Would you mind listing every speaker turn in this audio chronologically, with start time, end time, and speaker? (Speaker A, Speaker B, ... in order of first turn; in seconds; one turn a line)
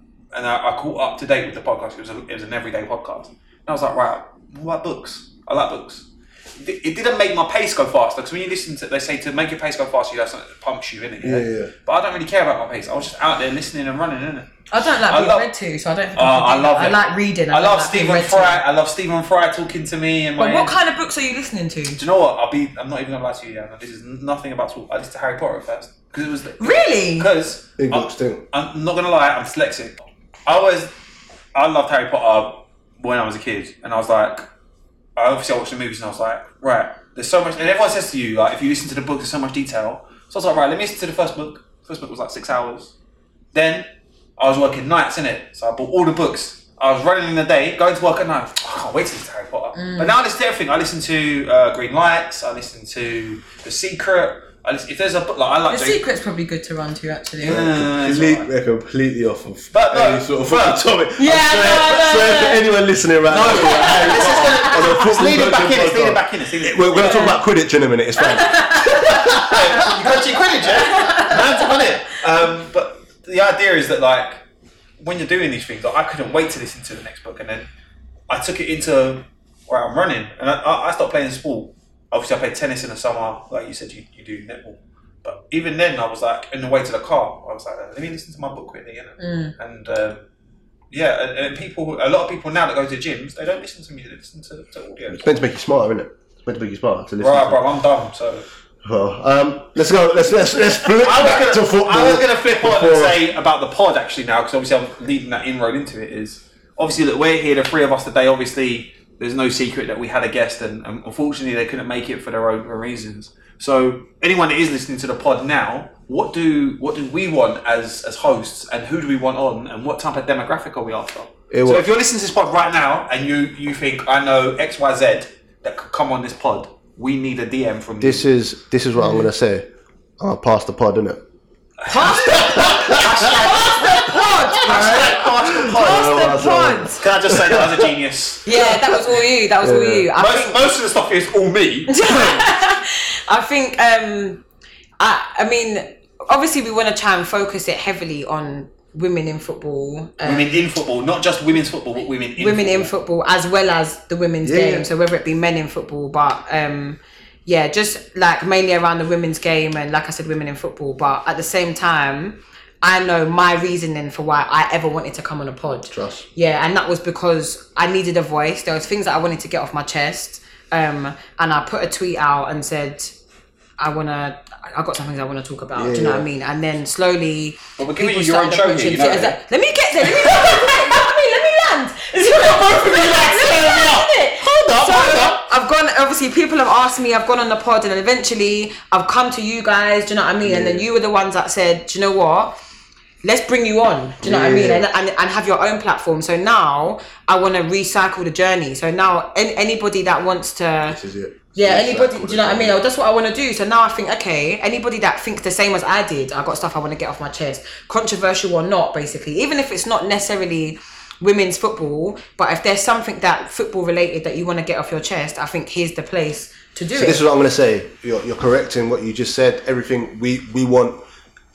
Speaker A: 0.3-6.1
Speaker A: 6.6-15.5
Speaker B: 11.2-11.7
Speaker C: 14.7-18.6
Speaker A: 16.2-17.0
Speaker A: 17.5-20.8
Speaker C: 20.4-22.0
Speaker A: 22.0-30.9
Speaker C: 26.6-27.3
Speaker B: 27.8-28.5
Speaker A: 31.5-34.5
Speaker A: 35.2-42.9
Speaker A: 43.5-56.0
Speaker C: 49.8-50.1
Speaker C: 55.7-57.6
Speaker A: 57.4-58.5
Speaker B: 57.4-70.2
Speaker A: 59.7-61.0
Speaker C: 61.2-62.6
Speaker A: 63.2-67.4
Speaker C: 63.5-64.7
Speaker C: 67.0-67.4
Speaker C: 68.2-69.4
Speaker A: 69.1-74.4
Speaker C: 70.8-71.4
Speaker A: 75.0-77.7
Speaker A: 78.3-90.2
Speaker C: 89.2-89.5
Speaker A: 90.9-95.3
Speaker B: 95.1-97.6
Speaker A: 97.2-98.5
Speaker B: 98.8-103.2
Speaker A: 100.9-128.2
Speaker B: 121.5-121.9
Speaker B: 128.0-129.7
Speaker C: 129.0-129.3
Speaker B: 130.2-131.2
Speaker A: 131.8-136.3
Speaker C: 131.9-137.0
Speaker B: 132.3-133.3
Speaker B: 134.6-137.9
Speaker A: 137.0-138.7
Speaker C: 138.4-140.8
Speaker B: 139.6-140.1
Speaker A: 140.2-142.4
Speaker C: 141.9-144.4
Speaker C: 145.0-150.6
Speaker A: 150.2-152.9
Speaker C: 152.4-173.2
Speaker B: 154.4-154.9
Speaker B: 165.9-166.3
Speaker C: 173.8-192.5
Speaker B: 175.8-176.3
Speaker A: 177.8-179.4
Speaker A: 180.2-180.5
Speaker A: 182.4-185.4
Speaker B: 190.4-190.9
Speaker C: 193.2-201.0
Speaker B: 194.2-194.9
Speaker B: 200.9-202.8
Speaker C: 201.6-217.2
Speaker B: 216.9-221.0